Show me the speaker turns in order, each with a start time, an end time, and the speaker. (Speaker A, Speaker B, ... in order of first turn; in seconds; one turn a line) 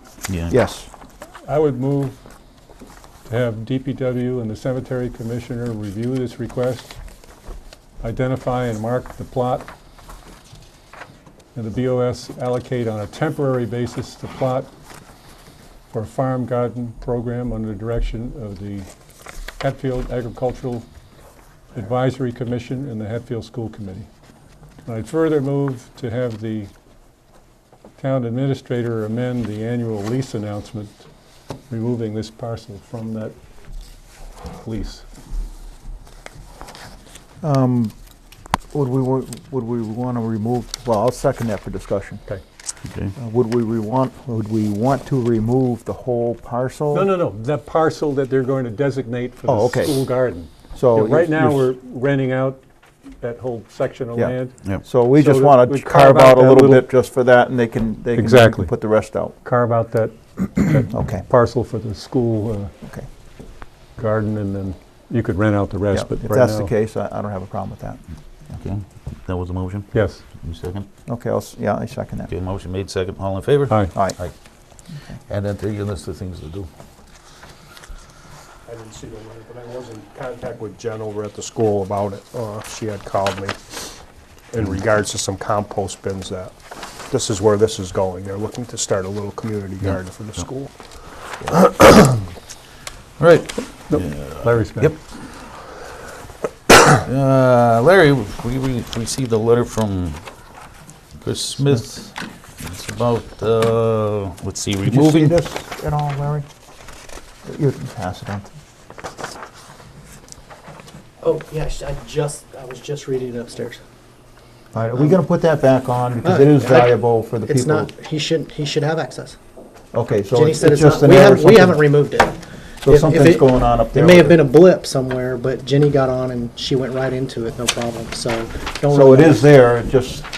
Speaker A: 0.3-0.6
Speaker B: 0.5-0.9
Speaker C: 1.4-2.2
Speaker C: 3.3-7.0
Speaker C: 8.0-9.7
Speaker C: 11.6-14.7
Speaker C: 15.9-18.9
Speaker C: 19.6-20.9
Speaker C: 21.7-24.1
Speaker C: 24.9-26.7
Speaker C: 28.0-31.1
Speaker C: 31.7-33.4
Speaker C: 34.5-35.0
Speaker B: 37.4-38.0
Speaker B: 38.7-42.2
Speaker A: 42.9-43.1
Speaker B: 43.2-47.1
Speaker C: 46.9-52.6
Speaker B: 49.5-50.0
Speaker B: 50.7-51.7
Speaker C: 53.2-56.9
Speaker B: 54.1-59.4
Speaker C: 58.1-58.7
Speaker C: 59.4-62.8
Speaker B: 60.9-61.2
Speaker C: 64.0-66.7
Speaker B: 65.9-68.0
Speaker A: 68.6-70.9
Speaker C: 69.9-70.2
Speaker B: 71.1-72.3
Speaker A: 72.3-76.7
Speaker B: 73.9-74.3
Speaker B: 74.9-75.2
Speaker D: 78.7-92.2
Speaker A: 89.8-90.5
Speaker A: 93.2-95.0
Speaker C: 93.9-95.0
Speaker A: 97.0-100.2
Speaker A: 101.2-105.4
Speaker B: 104.8-106.5
Speaker B: 107.5-108.5
Speaker E: 111.2-113.8
Speaker B: 114.7-117.9
Speaker E: 116.2-119.4
Speaker B: 119.9-121.9
Speaker E: 120.3-129.5
Speaker B: 122.8-124.4
Speaker B: 128.9-130.2